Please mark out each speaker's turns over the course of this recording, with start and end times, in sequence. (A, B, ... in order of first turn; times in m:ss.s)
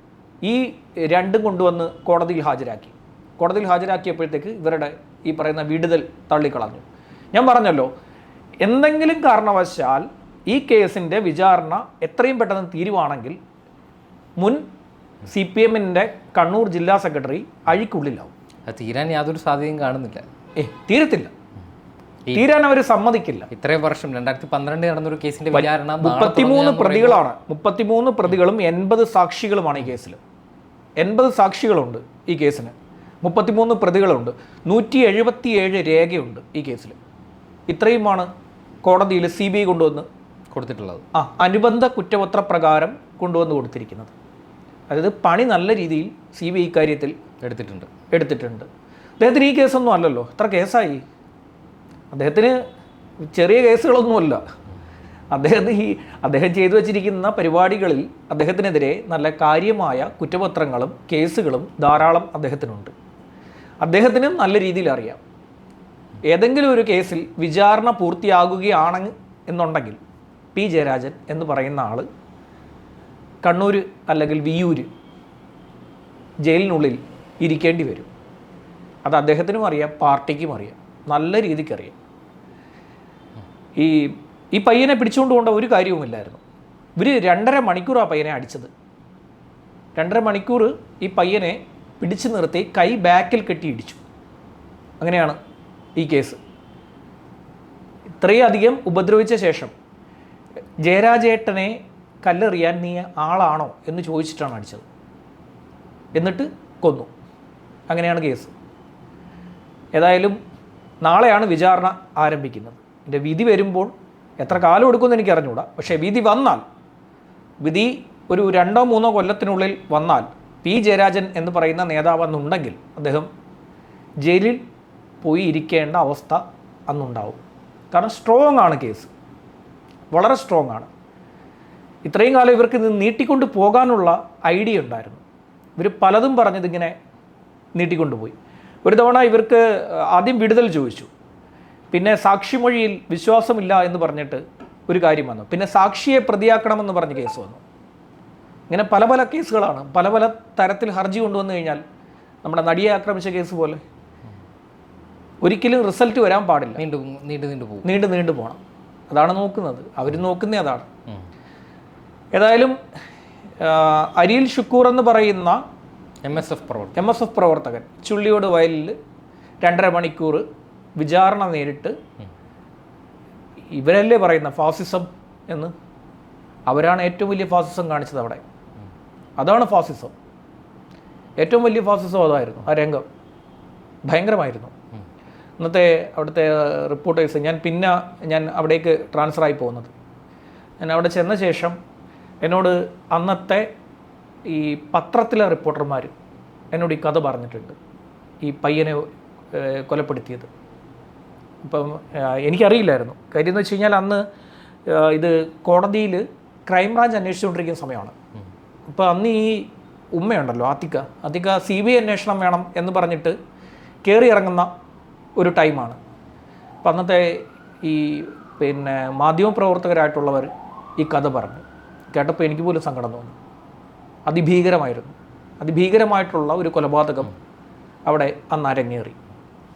0:00.4-0:07.9 A
0:08.6-0:13.4 A
0:14.4-0:14.6 A
0:15.3-0:18.3 A
0:18.7-0:20.2 B
0:20.6-0:21.3 A
0:22.4-0:23.5 A
0:23.5-0:27.2 B
0:25.5-0:30.2 A
0:31.0-0:37.0 A
0:37.7-0:38.3 A
0:38.8-0:40.1 A
0:40.5-0:41.0 B
0:41.1-0:44.1 A
0:44.9-0:47.2 A
0:47.4-0:47.9 B
0:48.1-0:48.7 A
0:49.2-0:51.0 A
0:52.1-0:52.6 A
0:53.3-0:54.4 A
0:55.3-1:02.9 A
1:03.8-1:05.2 A
1:06.3-1:10.0 A
1:10.6-1:12.1 A
1:13.4-1:14.9 A
1:16.4-1:18.1 A
1:19.0-1:22.0 A
1:23.8-1:26.4 A
1:27.0-1:28.7 A
1:30.0-1:34.0 A
1:35.0-1:35.4 A
1:36.0-1:36.4 A
1:38.2-1:39.7 A
1:40.8-1:44.8 A
1:46.1-1:47.1 A
1:47.9-1:48.5 A
1:49.9-1:50.4 A
1:51.0-1:56.6 A
1:57.6-2:03.3 A
2:04.2-2:04.6 A
2:05.2-2:07.4 A
2:07.9-2:09.1 A
2:10.1-2:10.9 A
2:12.0-2:15.2 A
2:15.8-2:17.0 A
2:17.8-2:21.1 A
2:21.9-2:27.6 A
2:28.7-2:31.8 A
2:32.4-2:33.8 A
2:35.4-2:36.8 A
2:36.8-2:37.9 B
2:37.8-2:40.9 A
2:42.3-2:42.8 A
2:43.6-2:45.6 A
2:46.3-2:47.0 B
2:47.0-2:49.0 A
2:49.6-2:50.4 A
2:51.0-2:52.0 A
2:53.7-2:55.7 A
2:56.7-2:58.4 A
2:59.4-3:00.1 A
3:01.4-3:03.0 A
3:04.1-3:04.7 A
3:05.6-3:09.9 A
3:10.8-3:11.8 A
3:12.4-3:13.7 A
3:14.5-3:16.1 A
3:16.7-3:17.8 A
3:18.4-3:20.5 A
3:21.6-3:24.2 A
3:24.9-3:28.1 A
3:28.9-3:33.4 A
3:34.0-3:34.7 A
3:35.4-3:36.0 A
3:36.8-3:43.4 A
3:44.3-3:47.3 A
3:48.0-3:49.2 A